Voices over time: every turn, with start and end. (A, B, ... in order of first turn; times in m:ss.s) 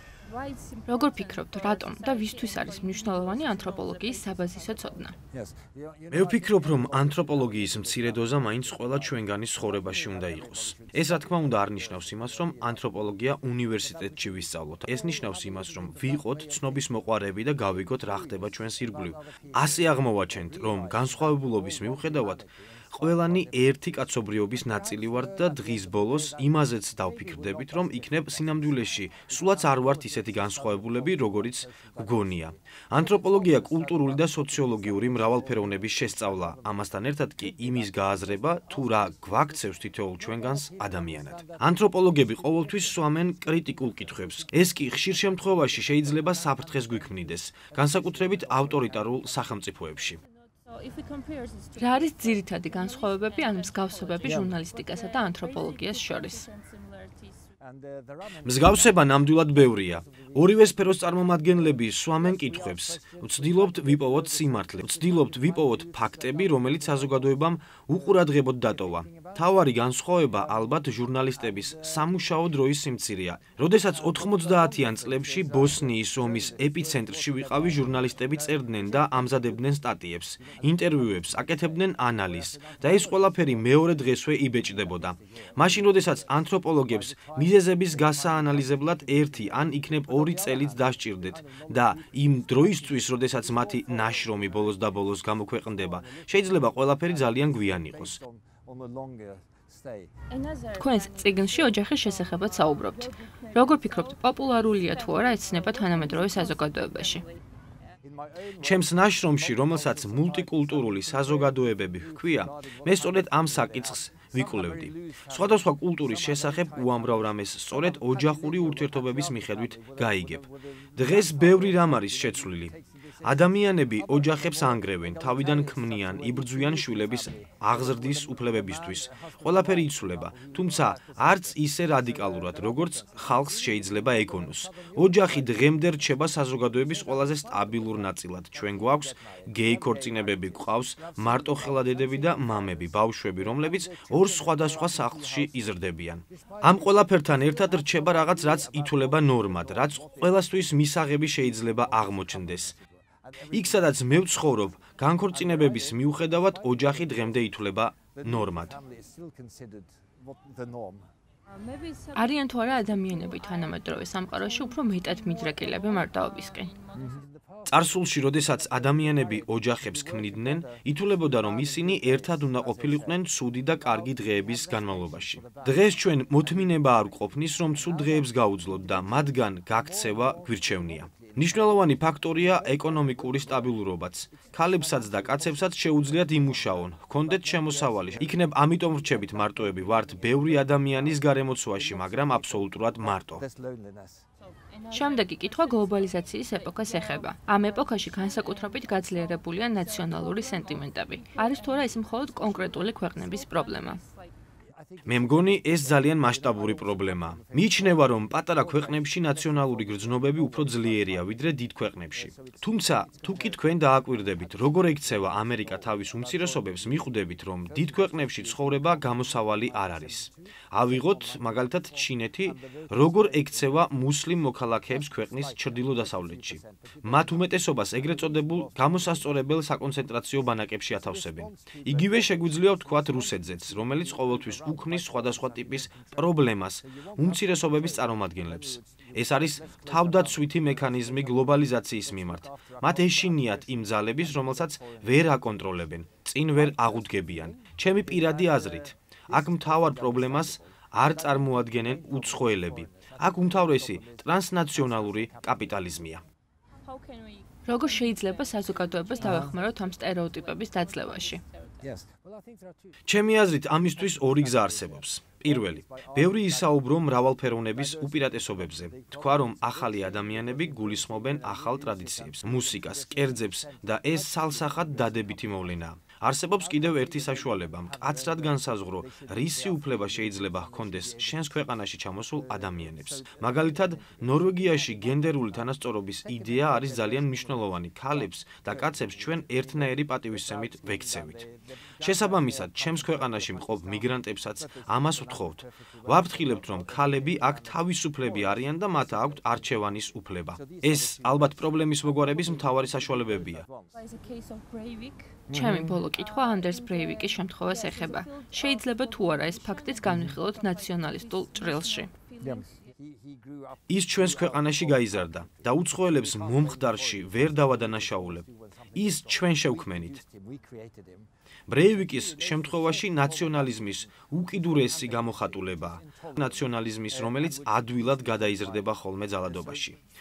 0:00.9-0:05.1 A
0:06.1-0:50.2 B
0:51.8-0:56.5 A
0:58.4-1:38.2 B
1:40.7-1:47.2 A
1:48.6-2:32.8 B
2:33.5-2:38.8 B
2:42.1-2:46.7 A
2:47.7-3:13.4 B
3:14.9-3:24.0 A
3:25.0-4:16.2 B
4:17.7-4:21.4 A
4:23.1-4:51.5 B
4:52.0-5:03.7 B
5:05.5-5:12.1 A
5:13.9-5:20.2 B
5:21.7-5:30.0 B